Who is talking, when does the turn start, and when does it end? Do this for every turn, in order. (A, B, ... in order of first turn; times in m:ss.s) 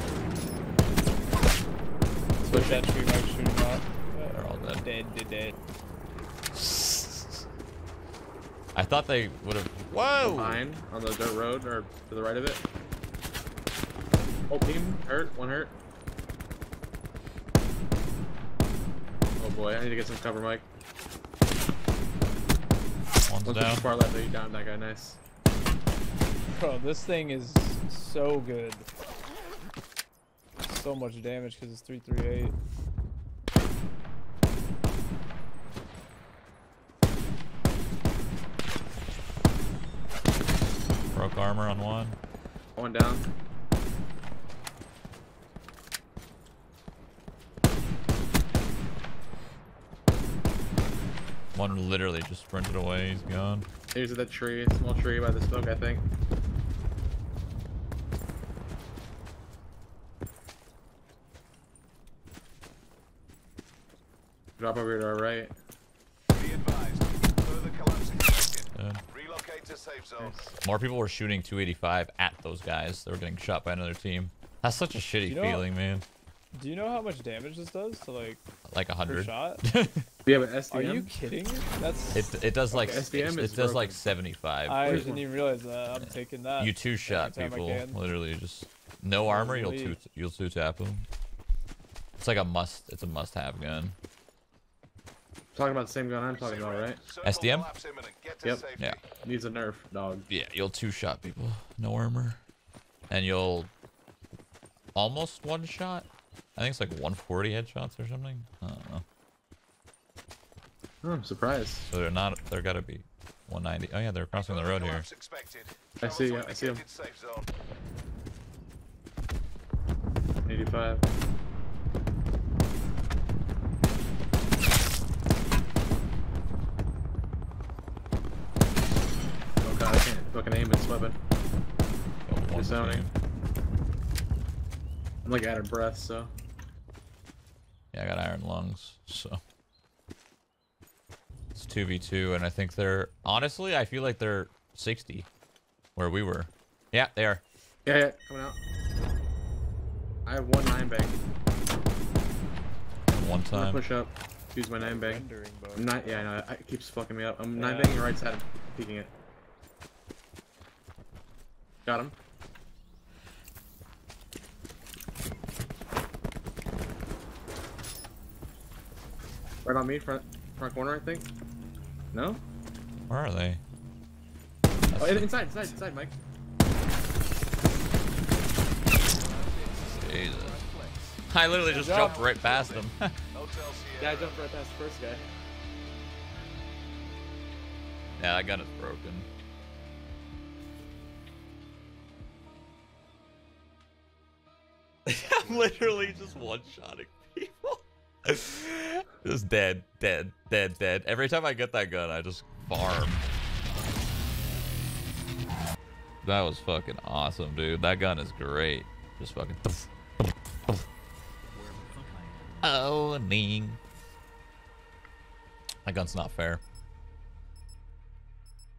0:02.4-0:05.6 A
0:02.4-0:02.8 B
0:04.3-0:04.8 C
0:06.5-0:07.4 C
0:08.7-0:10.6 C
0:10.2-0:12.6 B
0:14.5-0:15.7 B
0:19.4-0:20.6 B
0:23.3-0:23.8 C
0:23.4-0:25.2 B
0:26.5-0:28.9 A
0:30.6-0:32.6 A
0:41.1-0:42.2 C
0:42.8-0:43.3 B
0:51.5-0:53.7 C
0:53.9-0:56.0 B
1:04.6-1:05.5 B
1:06.3-1:10.4 D
1:08.8-1:09.0 C
1:10.2-1:10.5 B
1:10.6-1:16.0 C
1:15.2-1:15.7 A
1:16.5-1:18.4 A
1:18.7-1:20.0 C
1:19.0-1:19.6 A
1:20.2-1:21.1 B
1:20.7-1:22.3 A
1:22.1-1:25.1 C
1:22.7-1:24.0 B
1:24.6-1:28.0 A
1:24.8-1:25.2 B
1:25.9-1:31.0 C
1:29.2-1:30.0 A
1:32.2-1:34.0 C
1:35.5-1:37.0 B
1:36.3-1:39.0 D
1:37.2-1:37.7 C
1:39.2-1:40.3 B
1:40.3-1:42.4 C
1:43.1-1:43.7 C
1:44.9-1:49.0 C
1:51.0-1:51.9 B
1:51.9-1:55.1 C
1:54.4-1:57.5 D
1:56.0-1:56.8 B
2:00.4-2:01.0 B
2:09.6-2:11.2 B
2:12.3-2:13.1 C
2:12.5-2:13.1 B
2:15.2-2:16.3 B
2:17.9-2:19.4 C
2:21.5-2:25.3 C
2:26.0-2:27.4 C
2:27.8-2:28.6 B
2:30.2-2:31.2 B
2:33.1-2:33.8 C
2:33.5-2:39.1 B
2:34.8-2:36.3 A
2:37.5-2:38.0 A
2:41.8-2:42.1 B
2:49.6-2:51.3 B
2:52.1-2:52.4 B
2:53.1-2:53.6 C
2:54.9-2:55.7 C
2:55.0-2:56.1 B
2:59.2-3:04.4 D
2:59.9-3:00.6 C
3:01.2-3:03.1 C
3:01.6-3:02.3 A
3:04.0-3:05.2 B
3:08.2-3:09.3 C
3:15.0-3:23.2 C
3:26.2-3:30.8 C
3:32.6-3:33.8 C
3:35.8-3:36.6 C